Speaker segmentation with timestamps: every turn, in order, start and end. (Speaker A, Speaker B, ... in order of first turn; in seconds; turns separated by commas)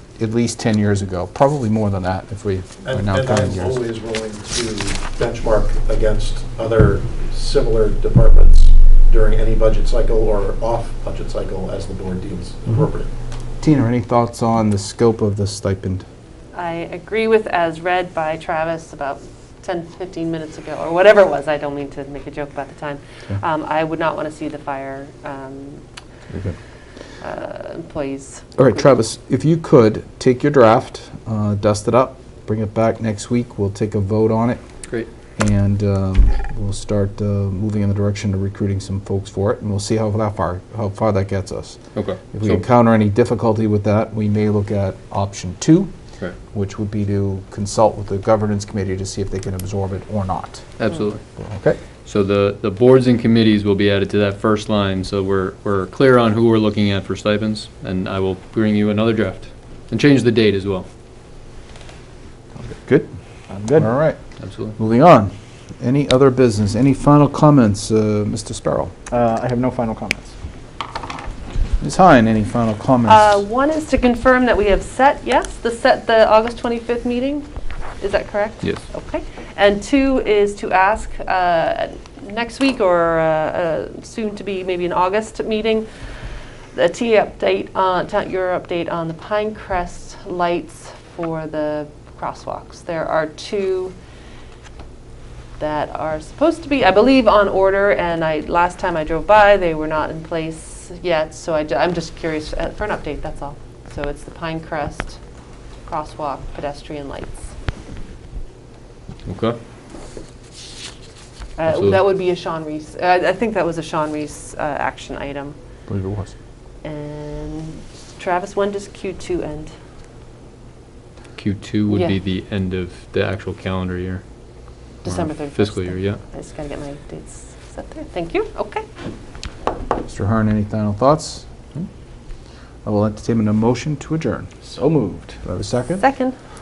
Speaker A: 0.2-3.8, Speaker B: 2.9-13.1, Speaker A: 13.6-16.1, Speaker C: 16.6-25.8, Speaker C: 27.2-28.9, Speaker A: 28.6-34.6, Speaker A: 35.4-41.8, Speaker D: 41.9-42.6, Speaker A: 42.3-45.9, Speaker A: 46.5-50.7, Speaker D: 50.8-51.2, Speaker A: 51.4-51.8, Speaker D: 52.0-60.9, Speaker A: 62.7-63.1, Speaker E: 63.5-63.9, Speaker A: 63.8-64.2, Speaker D: 64.4-64.8, Speaker A: 64.8-68.9, Speaker E: 69.1-70.3, Speaker A: 71.8-73.4, Speaker C: 73.1-77.5, Speaker C: 78.0-85.9, Speaker C: 86.7-94.0, Speaker C: 95.6-105.2, Speaker C: 105.9-107.5, Speaker D: 109.3-109.6, Speaker C: 111.6-115.6, Speaker D: 111.7-112.0, Speaker A: 115.9-116.3, Speaker C: 116.8-119.7, Speaker D: 121.4-124.2, Speaker C: 121.9-122.2, Speaker C: 125.0-128.8, Speaker D: 125.5-126.2, Speaker A: 130.1-131.5, Speaker A: 132.8-134.5, Speaker E: 134.6-135.4, Speaker A: 135.4-136.1, Speaker C: 136.0-136.3